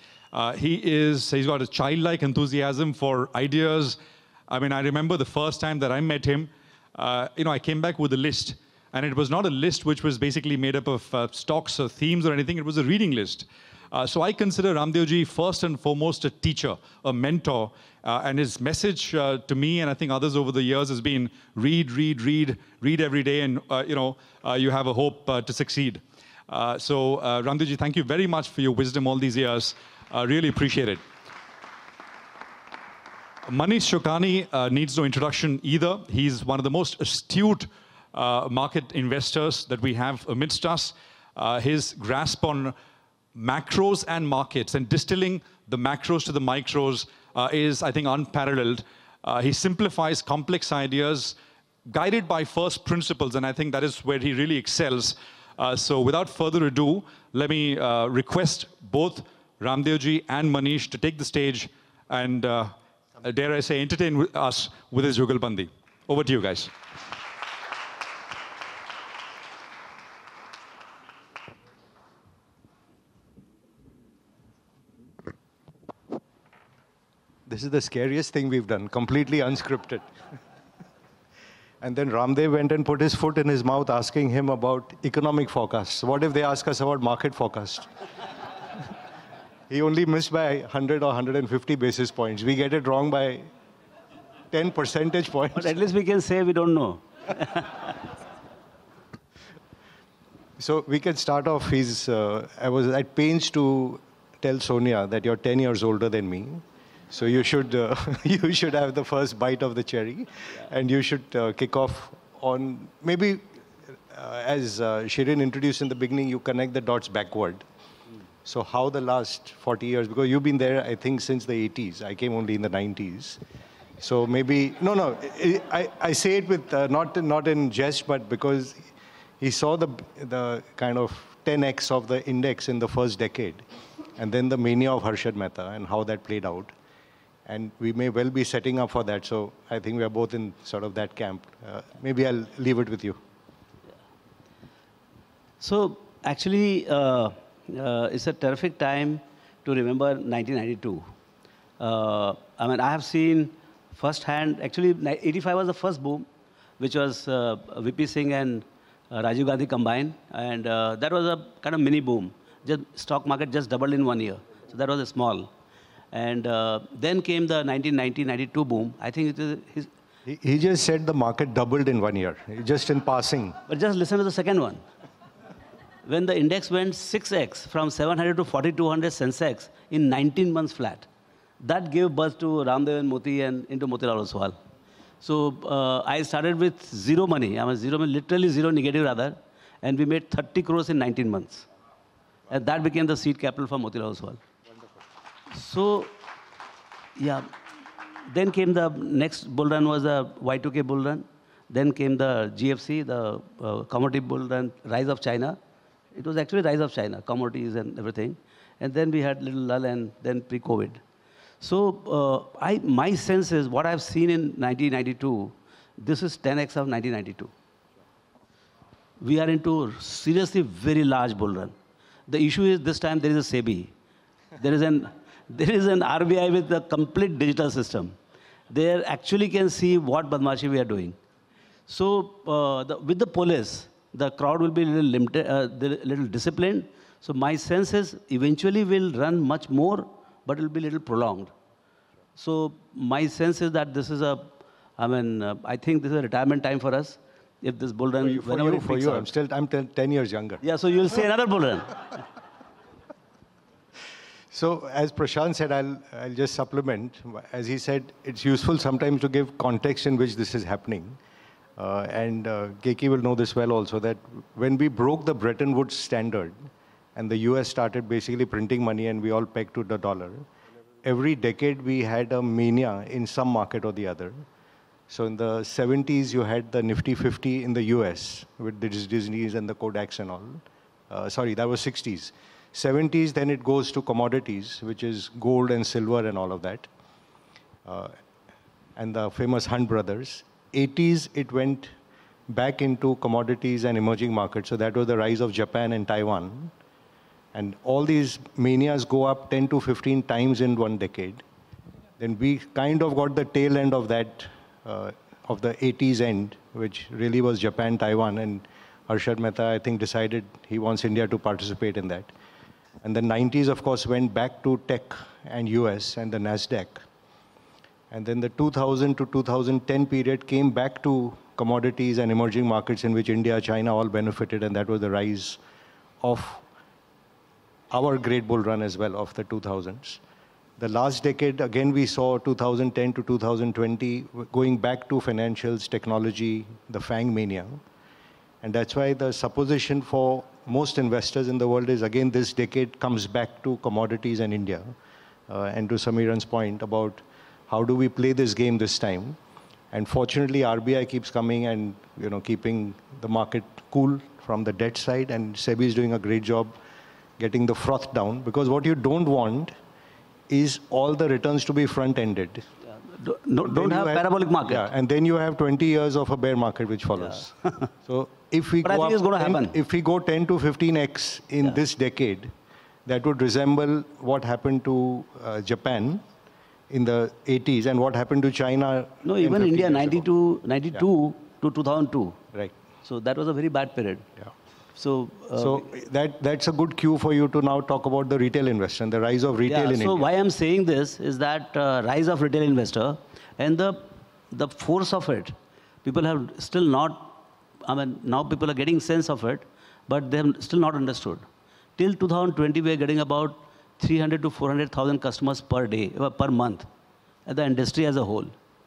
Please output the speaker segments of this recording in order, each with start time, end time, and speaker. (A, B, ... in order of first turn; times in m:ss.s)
0:00.3-0:04.0 A
0:04.5-0:31.0 A
0:33.5-0:42.8 A
0:43.4-0:51.4 A
0:51.9-1:06.7 A
1:17.5-1:20.1 B
1:21.8-1:27.9 B
1:29.7-1:33.5 B
1:34.5-1:35.8 B
1:35.5-1:37.9 C
1:40.6-1:57.6 B
1:58.4-2:03.4 B
2:04.0-2:13.6 B
2:14.2-2:16.7 B
2:17.5-2:23.2 B
2:25.6-2:31.1 C
2:31.8-2:36.3 C
2:36.8-2:45.5 C
2:46.1-2:49.9 C
2:50.3-2:53.6 B
2:53.7-2:54.8 C
2:56.0-3:01.1 C
3:01.6-3:04.6 C
3:05.2-3:11.7 C
3:12.5-3:14.4 C
3:15.5-3:16.1 C
3:17.2-3:17.5 C
3:18.3-3:25.6 C
3:26.2-3:31.0 C
3:31.6-3:37.5 C
3:39.2-3:41.8 C
3:42.3-3:43.9 C
3:44.6-3:48.1 C
3:48.7-3:51.2 C
3:51.9-4:01.5 C
4:02.4-4:09.3 C
4:08.2-4:10.6 B
4:10.6-4:12.2 C
4:14.5-4:21.2 B
4:21.8-4:30.5 B
4:31.0-4:34.4 B
4:35.1-4:46.9 B
4:47.8-4:48.2 B
4:49.0-4:51.9 B
4:52.5-4:56.7 B
4:57.5-5:01.4 B
5:02.2-5:12.3 B
5:13.0-5:17.1 B
5:18.1-5:25.6 B
5:26.2-5:26.6 B
5:27.9-5:30.2 B
5:30.8-5:37.8 B
5:38.6-5:44.9 B
5:45.5-5:49.4 B
5:49.9-5:56.8 B
5:57.4-5:59.8 B
6:00.5-6:02.7 B
6:03.2-6:04.9 C
6:03.6-6:07.5 B
6:07.2-6:07.9 C
6:08.1-6:12.5 B
6:08.8-6:09.8 C
6:13.1-6:16.2 B
6:16.9-6:20.3 B
6:19.2-6:22.4 C
6:23.0-6:24.3 C
6:25.0-6:25.9 C
6:25.6-6:30.3 B
6:29.7-6:41.4 C
6:42.0-6:46.9 C
6:47.5-6:48.5 C